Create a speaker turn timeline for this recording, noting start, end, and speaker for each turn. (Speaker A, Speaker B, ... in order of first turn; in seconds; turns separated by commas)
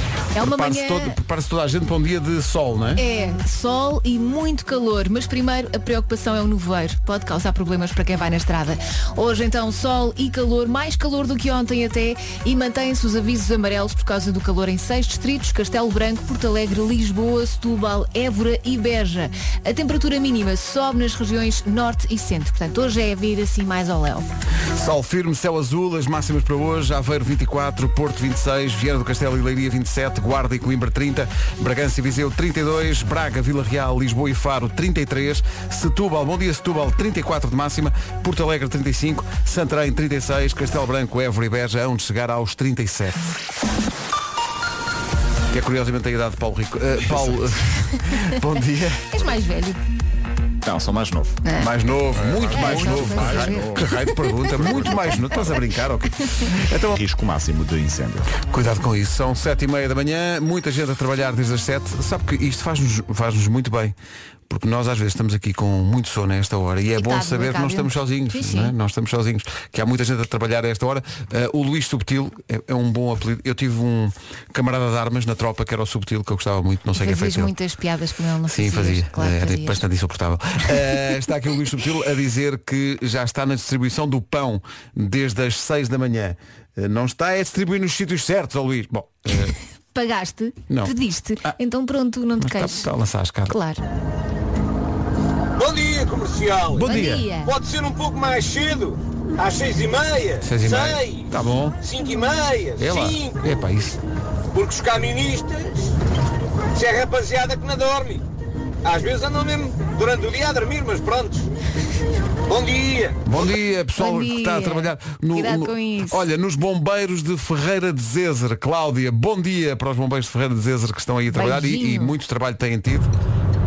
Speaker A: 0.3-1.1, Speaker B: 0.4-3.0, Speaker A: 3.0-24.3, Speaker B: 24.7-43.3, Speaker B: 45.5-49.1, Speaker A: 49.1-49.8, Speaker C: 50.6-51.4, Speaker A: 51.4-51.7, Speaker B: 51.6-57.0, Speaker C: 52.2-53.9, Speaker A: 52.5-55.5, Speaker C: 54.6-54.9, Speaker C: 57.0-58.3, Speaker B: 58.4-63.9, Speaker B: 64.5-77.5, Speaker A: 67.0-68.7, Speaker A: 76.9-79.8, Speaker B: 78.5-89.5, Speaker A: 89.9-92.8, Speaker B: 90.7-91.5, Speaker B: 92.4-93.6, Speaker A: 93.5-93.8, Speaker D: 95.5-103.6, Speaker B: 96.7-97.3, Speaker A: 96.8-97.5, Speaker B: 100.4-101.8, Speaker B: 102.8-104.0, Speaker D: 104.5-105.8, Speaker D: 106.7-108.2, Speaker D: 108.8-111.5, Speaker D: 112.5-113.2, Speaker B: 113.2-123.1, Speaker A: 114.0-116.2, Speaker A: 121.3-122.1